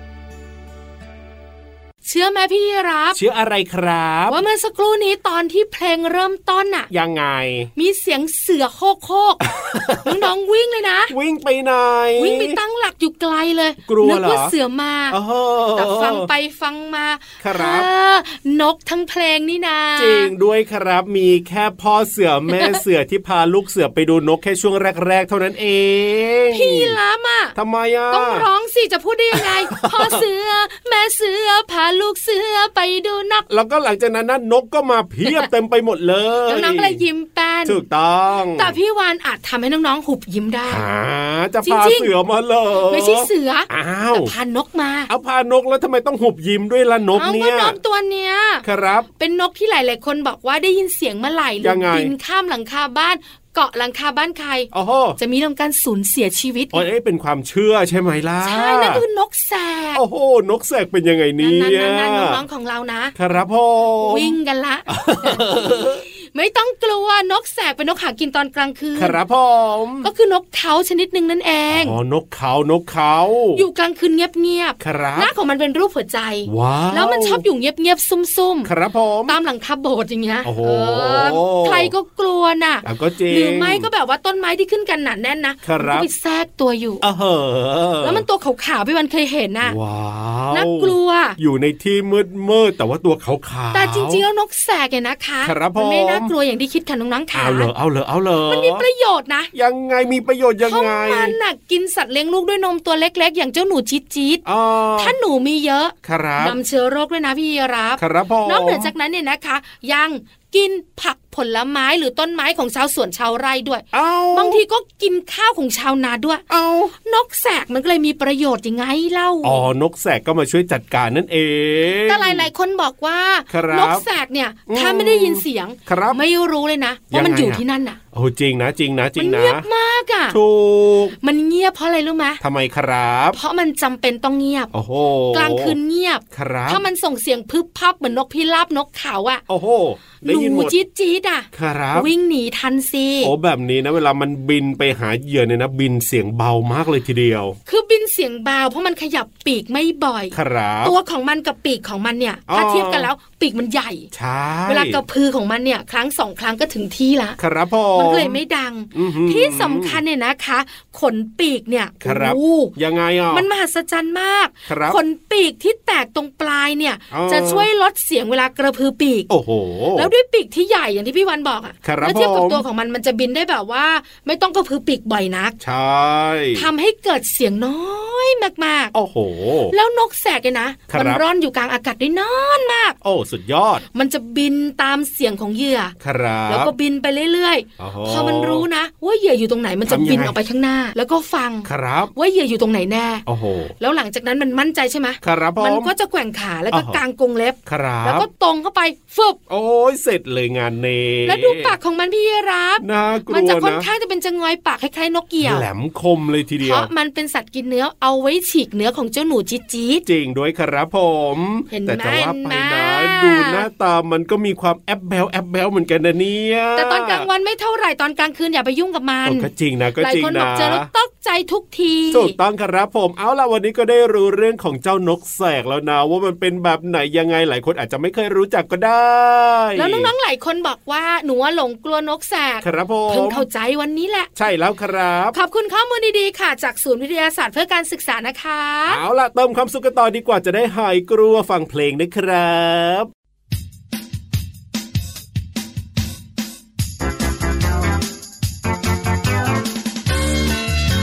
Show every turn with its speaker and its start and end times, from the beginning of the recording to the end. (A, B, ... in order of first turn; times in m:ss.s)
0:02.0-0:03.2 A
0:03.1-0:04.4 B
0:04.3-0:06.9 A
0:06.9-0:07.7 B
0:07.8-0:09.4 A
0:09.5-0:10.2 B
0:10.0-0:11.1 A
0:11.1-0:12.6 B
0:12.2-0:15.2 A
0:13.8-0:14.5 B
0:15.1-0:16.3 B
0:15.8-0:20.3 A
0:17.4-0:17.9 B
0:20.0-0:27.0 B
0:26.5-0:27.6 A
0:27.5-0:28.4 B
0:28.1-0:33.4 A
0:29.4-0:30.2 B
0:33.5-0:37.0 B
0:36.5-0:37.8 A
0:37.6-0:38.8 B
0:38.6-0:40.8 A
0:40.7-0:44.3 B
0:41.6-0:42.1 A
0:42.9-0:45.1 A
0:45.1-0:47.8 B
0:47.1-0:48.6 A
0:48.6-0:49.1 B
0:49.2-0:56.8 A
0:51.6-0:52.1 B
0:54.7-0:55.2 B
0:56.7-0:59.0 B
0:58.4-1:00.0 A
0:59.9-1:02.4 B
1:01.4-1:03.1 A
1:03.1-1:04.4 B
1:04.0-1:09.2 A
1:04.9-1:06.0 B
1:09.0-1:10.1 B
1:10.0-1:12.0 A
1:11.7-1:13.6 B
1:13.5-1:18.7 A
1:14.8-1:15.3 B
1:16.4-1:17.4 B
1:18.6-1:19.4 B
1:19.3-1:27.0 A
1:20.4-1:21.9 B
1:22.8-1:23.9 B
1:25.6-1:26.1 B
1:27.0-1:28.2 B
1:28.0-1:29.8 A
1:29.6-1:34.2 B
1:30.5-1:31.4 A
1:33.7-1:37.7 A
1:35.4-1:36.3 B
1:37.3-1:38.8 B
1:38.4-1:39.5 A
1:39.5-1:41.4 B
1:40.6-1:44.4 A
1:44.4-1:45.2 B
1:45.0-1:56.4 A
1:46.0-1:46.6 B
1:48.0-1:48.9 B
1:53.9-1:54.6 B
1:56.5-1:56.9 B
1:57.0-1:59.6 A
1:59.4-2:02.5 B
2:02.1-2:08.0 A
2:03.5-2:04.0 B
2:04.7-2:06.2 B
2:07.1-2:07.6 B
2:08.1-2:09.6 B
2:09.2-2:10.4 A
2:10.3-2:11.2 B
2:11.2-2:12.4 A
2:12.4-2:13.4 B
2:13.3-2:14.7 A
2:14.7-2:15.8 B
2:15.3-2:19.4 A
2:16.3-2:16.8 B
2:19.5-2:20.7 B
2:20.2-2:23.3 A
2:21.5-2:22.1 B
2:23.2-2:27.6 B
2:27.7-2:34.1 A
2:30.3-2:30.9 B
2:32.5-2:33.1 B
2:34.1-2:35.0 B
2:34.7-2:37.4 A
2:37.4-2:38.4 B
2:37.9-2:42.7 A
2:38.9-2:40.0 B
2:42.0-2:43.4 B
2:43.3-2:49.3 A
2:44.7-2:45.0 B
2:47.1-2:47.7 B
2:49.3-2:50.1 B
2:50.0-2:55.6 A
2:51.8-2:52.6 B
2:55.6-2:56.7 B
2:56.6-2:58.9 A
2:58.9-2:59.7 B
2:59.7-3:03.0 A
3:00.9-3:01.2 B
3:03.0-3:03.8 B
3:03.9-3:06.0 A
3:06.0-3:06.7 B
3:06.5-3:13.2 A
3:07.8-3:08.6 B
3:09.9-3:10.3 B
3:11.6-3:12.1 B
3:13.2-3:13.7 B
3:13.8-3:19.4 A
3:15.2-3:15.9 B
3:16.7-3:17.0 B
3:17.6-3:18.3 B
3:19.5-3:21.7 B
3:21.2-3:25.6 A
3:22.8-3:23.8 B
3:25.4-3:26.9 B
3:26.6-3:30.0 A
3:30.0-3:37.2 B
3:31.7-3:33.6 A
3:36.8-3:42.3 A
3:39.2-3:40.9 B
3:42.1-3:50.1 B
3:49.8-3:54.3 A
3:52.6-3:53.4 B
3:54.4-3:55.4 B
3:55.3-3:59.0 A
3:58.9-4:03.1 B